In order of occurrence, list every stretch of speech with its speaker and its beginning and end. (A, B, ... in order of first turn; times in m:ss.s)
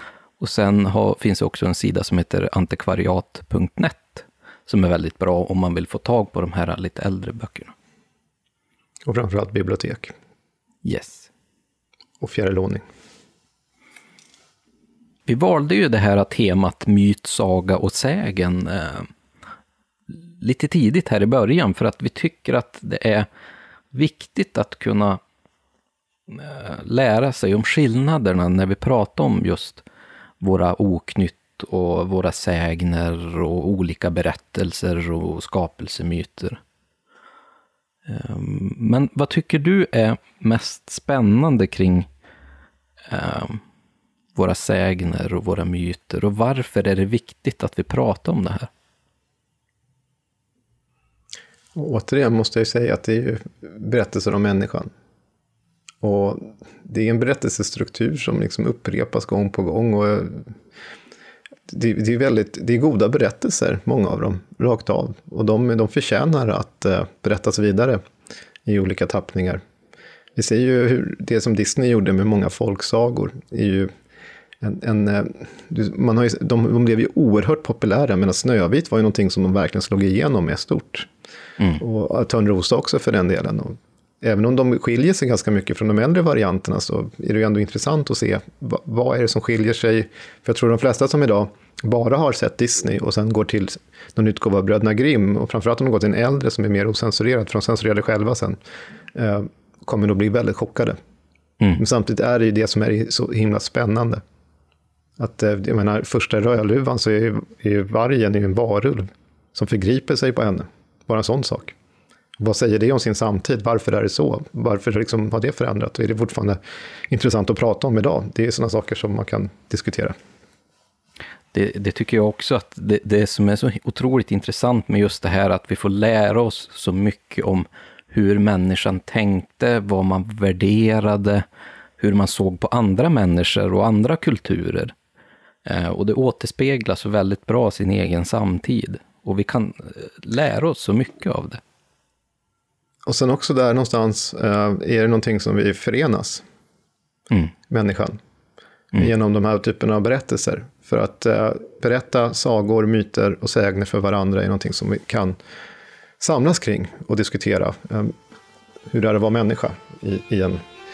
0:00.4-0:07.7 A
0:09.0-0:10.1 B
0:10.8-0:11.3 A
0:12.2-0:12.8 B
0:15.3-0:19.1 A
0:20.1-0:23.3 A
0:23.9-0:25.2 A
0:26.3-0:29.8 A
0:30.4-0:36.6 A
0:38.1-0:42.1 A
0:43.1-0:43.6 A
0:44.3-0:48.7 A
0:51.7-0:54.9 B
0:56.0-1:00.5 B
1:01.7-1:08.0 B
1:08.6-1:09.6 B
1:10.4-1:13.9 B
1:14.6-1:21.1 B
1:21.8-1:38.6 B
1:39.1-1:41.0 B
1:41.8-1:44.2 B
1:45.2-1:51.8 B
1:52.4-1:56.6 B
1:57.1-2:00.1 B
2:01.5-2:11.4 A
2:12.0-2:14.9 A
2:15.6-2:21.6 A
2:23.0-2:26.4 B
2:27.7-2:28.2 B
2:28.9-2:35.4 B
2:36.2-2:38.1 B
2:38.9-2:40.6 B